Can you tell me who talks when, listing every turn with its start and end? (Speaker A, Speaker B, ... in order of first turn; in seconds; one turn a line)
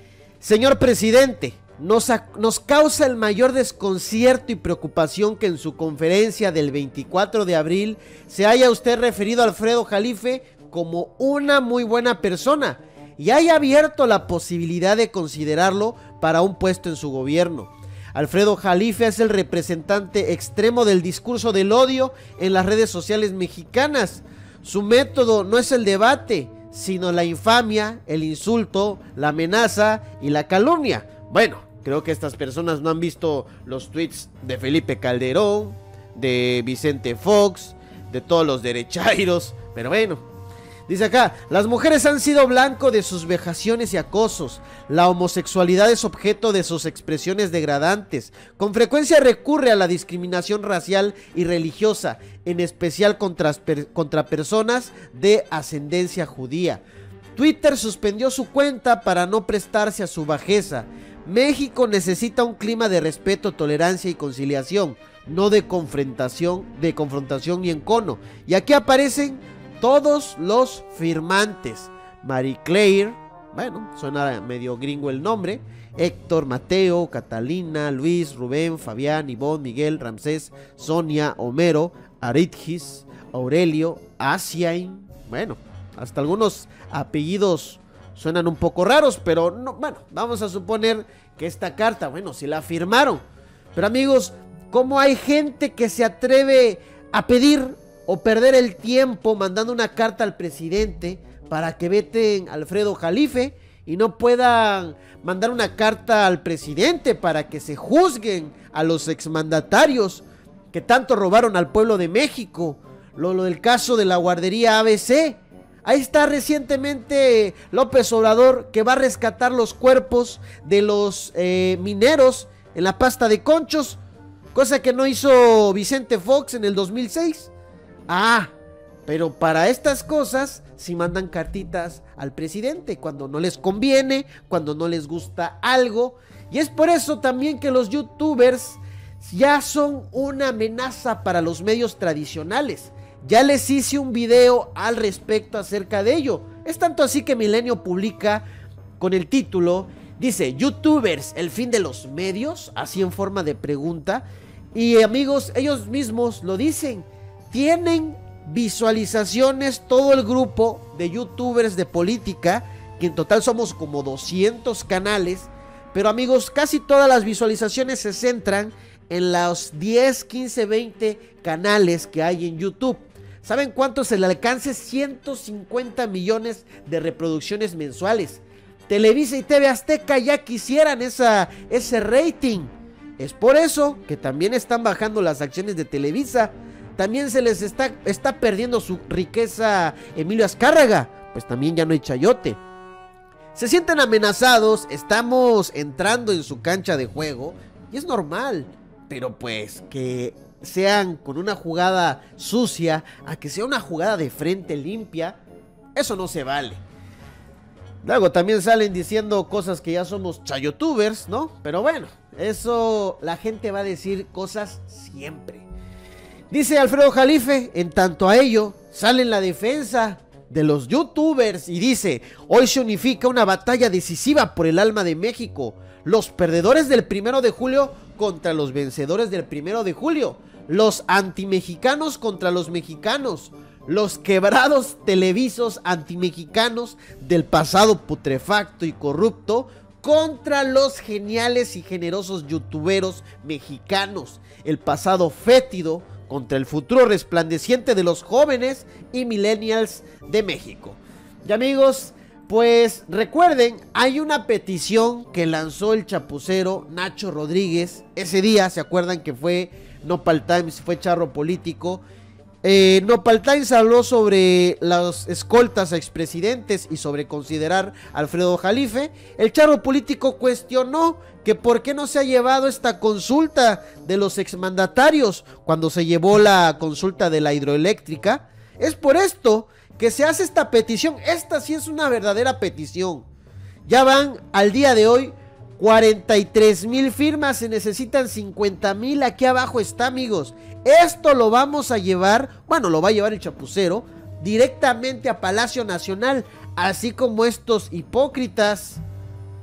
Speaker A: 0.4-40.2
Speaker A: 40.9-56.8
Speaker A: 57.4-93.2
Speaker A: 93.7-124.0
Speaker A: 124.5-127.5
Speaker A: 128.1-128.5
Speaker A: 129.1-148.4
Speaker A: 149.0-192.6
Speaker A: 193.5-205.4
Speaker A: 205.9-206.8
Speaker A: 208.0-215.7
Speaker A: 216.5-262.0
Speaker A: 262.6-283.2
Speaker A: 283.9-299.0